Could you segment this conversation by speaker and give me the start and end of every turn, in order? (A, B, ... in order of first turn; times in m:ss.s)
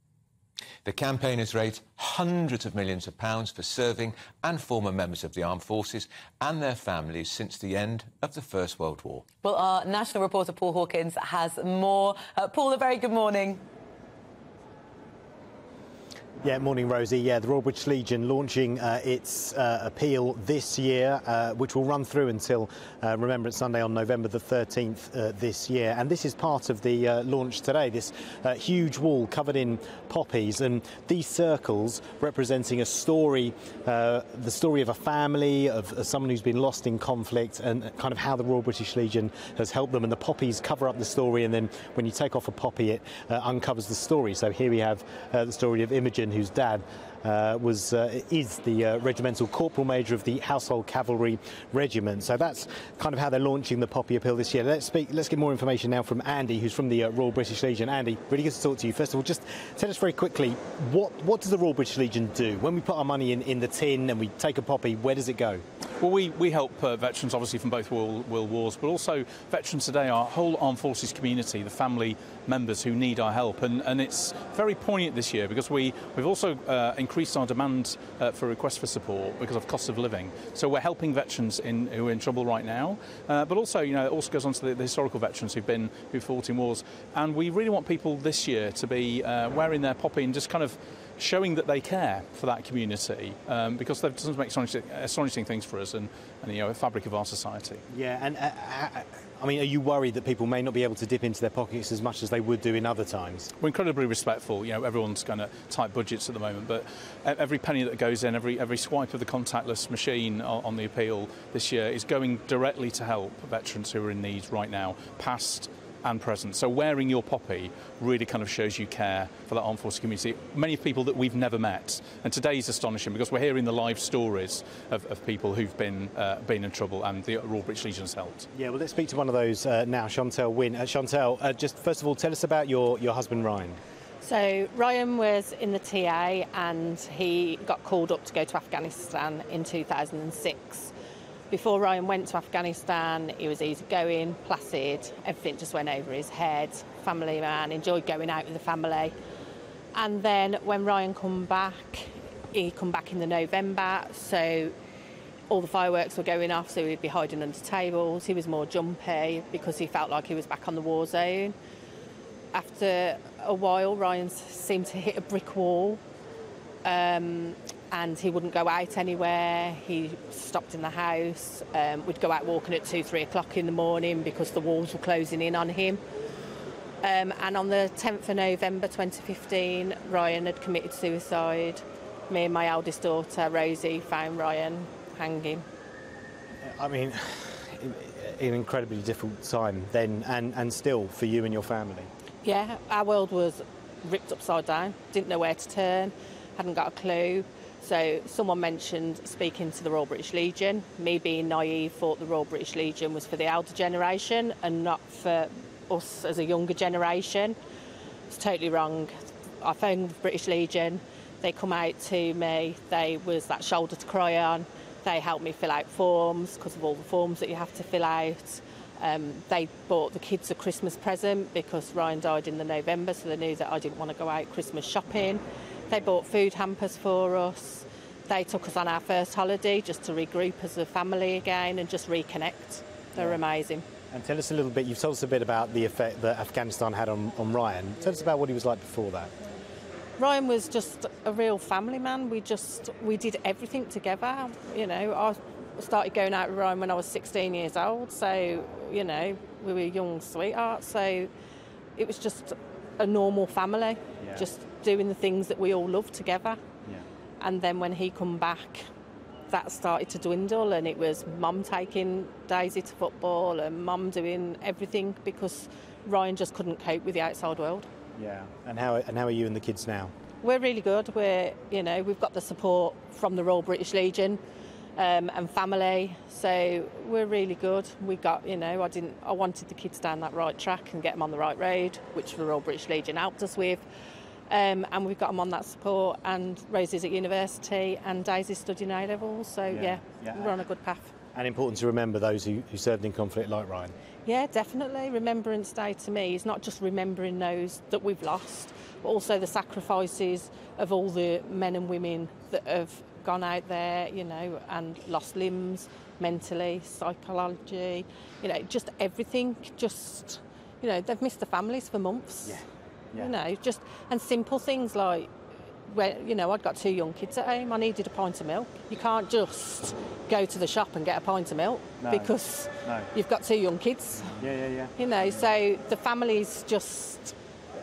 0:00.8-0:09.3 A
0:09.4-0:13.6 B
0:16.4-1:05.6 C
1:06.0-1:37.8 D
1:37.9-1:43.5 C
1:43.6-2:08.5 D
2:08.5-2:13.8 C
2:14.2-2:20.9 E
2:21.5-2:29.1 E
2:29.9-2:34.7 E
2:35.5-2:41.5 E
2:42.5-2:46.0 E
2:46.8-2:56.0 E
2:57.0-3:05.6 E
3:06.6-3:12.1 C
3:12.4-3:27.6 E
3:28.3-3:53.8 E
3:54.1-3:59.3 C
4:00.2-4:11.3 E
4:12.0-4:16.6 E
4:14.2-4:14.4 C
4:17.4-4:18.9 E
4:19.5-4:27.9 E
4:28.1-4:30.1 C
4:30.4-4:34.4 E
4:35.0-4:43.8 E
4:44.5-4:51.1 E
4:49.7-4:50.6 C
4:51.3-4:53.9 C
4:54.2-5:12.6 E
5:12.4-5:13.3 C
5:13.2-5:15.3 E
5:15.9-5:24.4 E
5:22.0-5:23.1 C
5:24.3-5:25.5 C
5:25.0-5:27.3 E